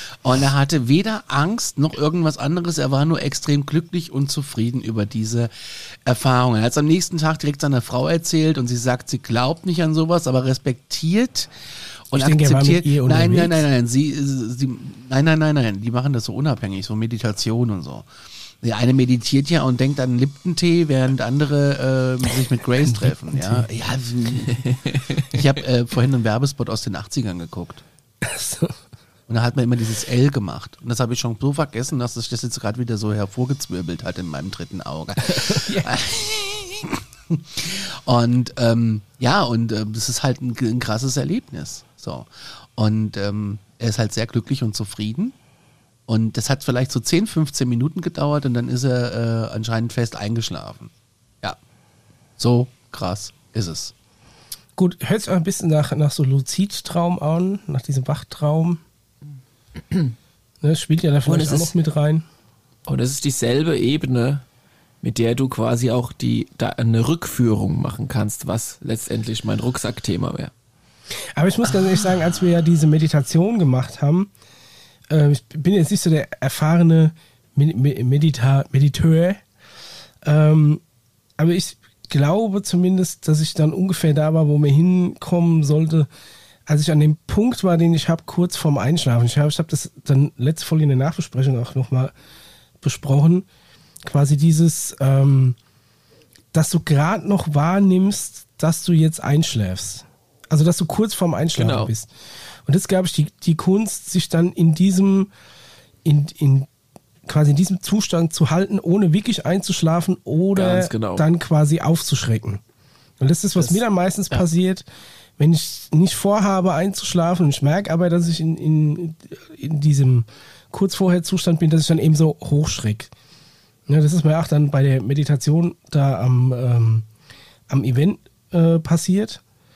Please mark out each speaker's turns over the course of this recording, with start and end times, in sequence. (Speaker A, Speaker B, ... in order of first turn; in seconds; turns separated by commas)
Speaker A: 0.2-5.5, Speaker A: 6.0-11.5, Speaker A: 12.1-18.1, Speaker B: 12.1-13.7, Speaker A: 18.6-27.8, Speaker B: 22.8-23.7, Speaker C: 24.6-25.3, Speaker B: 28.2-28.8, Speaker A: 29.3-45.3, Speaker B: 35.2-35.9, Speaker A: 46.1-50.9, Speaker A: 52.4-53.9, Speaker B: 54.8-58.8, Speaker B: 60.6-62.2, Speaker C: 61.2-61.7, Speaker C: 62.9-64.4, Speaker C: 65.0-70.5, Speaker B: 71.3-74.3, Speaker B: 75.1-79.4, Speaker B: 80.2-80.8, Speaker B: 81.4-86.1, Speaker B: 86.7-92.1, Speaker B: 92.8-93.5, Speaker B: 94.0-95.6, Speaker B: 96.5-102.1, Speaker C: 101.5-101.9, Speaker B: 102.7-105.3, Speaker B: 106.0-106.7, Speaker B: 107.2-112.6, Speaker C: 110.5-111.2, Speaker B: 113.2-114.8, Speaker B: 115.4-123.1, Speaker B: 123.9-127.1, Speaker B: 127.7-129.4